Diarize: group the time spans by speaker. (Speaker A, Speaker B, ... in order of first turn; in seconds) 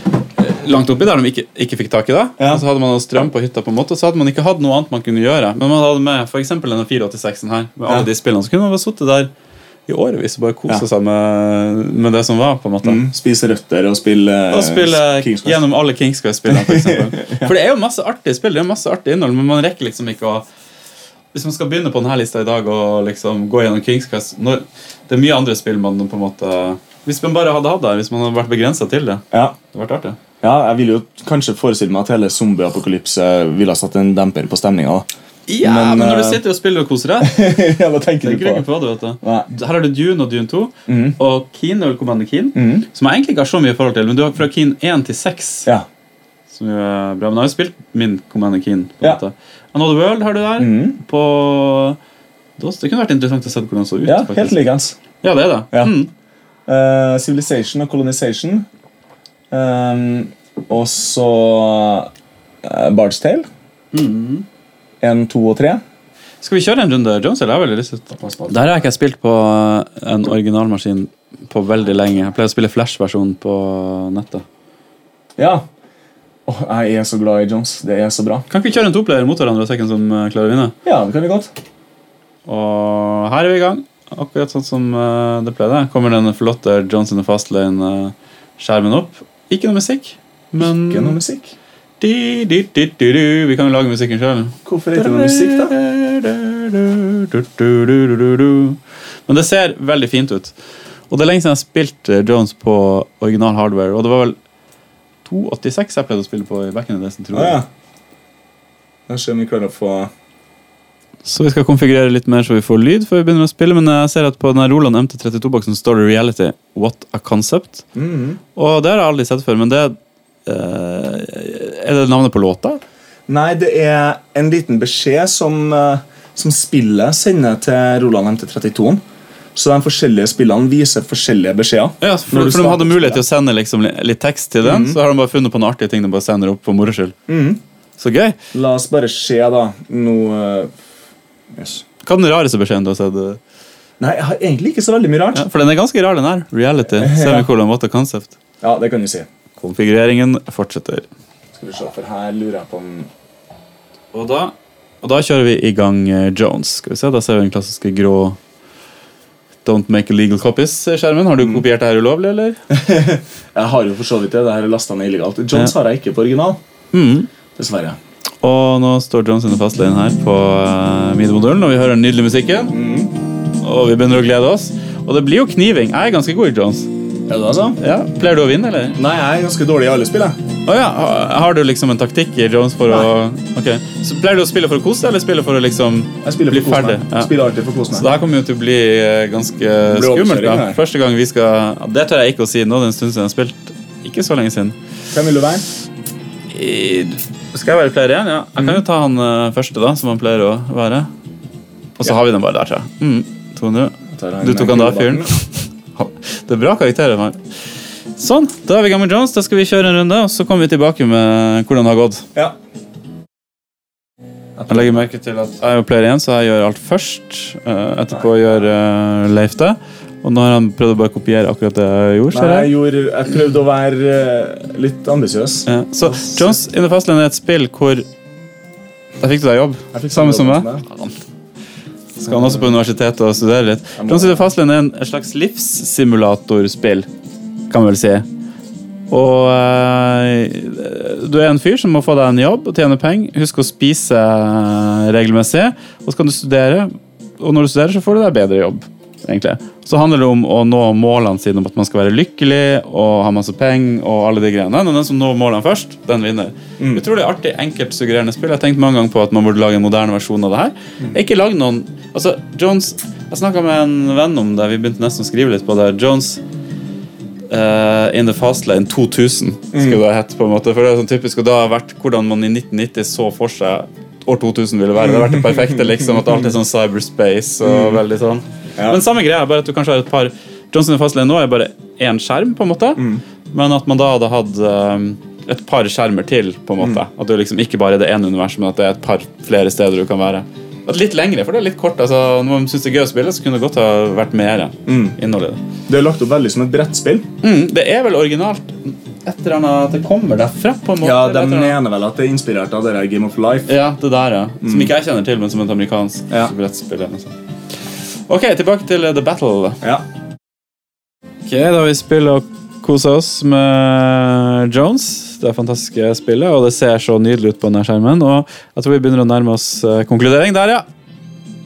Speaker A: 0.4-9.3, 9.9-13.0, 14.5-20.4, 21.3-30.2, 35.5-37.5, 38.2-45.7, 46.5-52.0, 52.6-54.6, 55.2-56.1, 63.9-64.5, 66.4-74.5, 78.5-80.8, 82.5-91.2, 92.0-100.6, 101.1-104.4, 105.2-107.6, 111.2-117.9, 118.5-122.8, 132.0-137.2, 138.0-138.4, 142.0-143.4, 145.3-148.3, 149.6-151.1, 154.1-158.4, 159.7-162.6, 166.9-167.3, 168.4-172.7, 173.6-176.9, 177.8-179.0, 180.7-187.3, 187.9-194.8, 196.5-201.1, 202.0-207.4, 208.2-212.3, 214.7-222.7, 225.7-228.1, 229.2-231.2, 232.2-237.1, 237.7-238.3, 239.1-266.4, 267.5-295.6, 297.4-301.8, 303.7-307.4, 308.3-309.8, 311.5-320.9
Speaker B: 2.4-2.6, 12.8-15.6, 16.5-17.5, 29.3-29.6, 30.4-35.1, 35.6-36.4, 37.2-38.7, 39.2-39.5, 40.9-41.2, 42.5-42.9, 50.6-51.0, 54.0-55.0, 56.7-58.7, 59.5-62.1, 62.6-63.5, 65.0-65.8, 68.1-68.8, 75.4-75.7, 76.5-78.5, 80.8-81.5, 90.6-91.5, 94.7-95.7, 107.3-107.7, 109.1-110.1, 117.9-118.4, 123.3-129.0, 129.6-133.2, 134.6-135.0, 137.3-137.6, 138.5-140.7, 141.5-141.8, 144.0-145.5, 146.9-147.5, 148.6-149.3, 151.6-153.1, 162.7-166.6, 167.6-168.0, 172.7-173.1, 177.3-177.8, 179.0-180.4, 186.2-188.1, 189.9-190.8, 195.1-195.7, 204.1-205.3, 214.6-215.1, 218.1-218.6, 222.3-226.6, 229.9-230.9, 232.3-232.7, 234.0-234.5, 256.8-257.0, 269.7-270.0, 275.0-276.5, 277.6-278.0, 283.0-283.2, 294.9-295.2, 295.9-297.3, 301.0-303.7, 304.6-304.9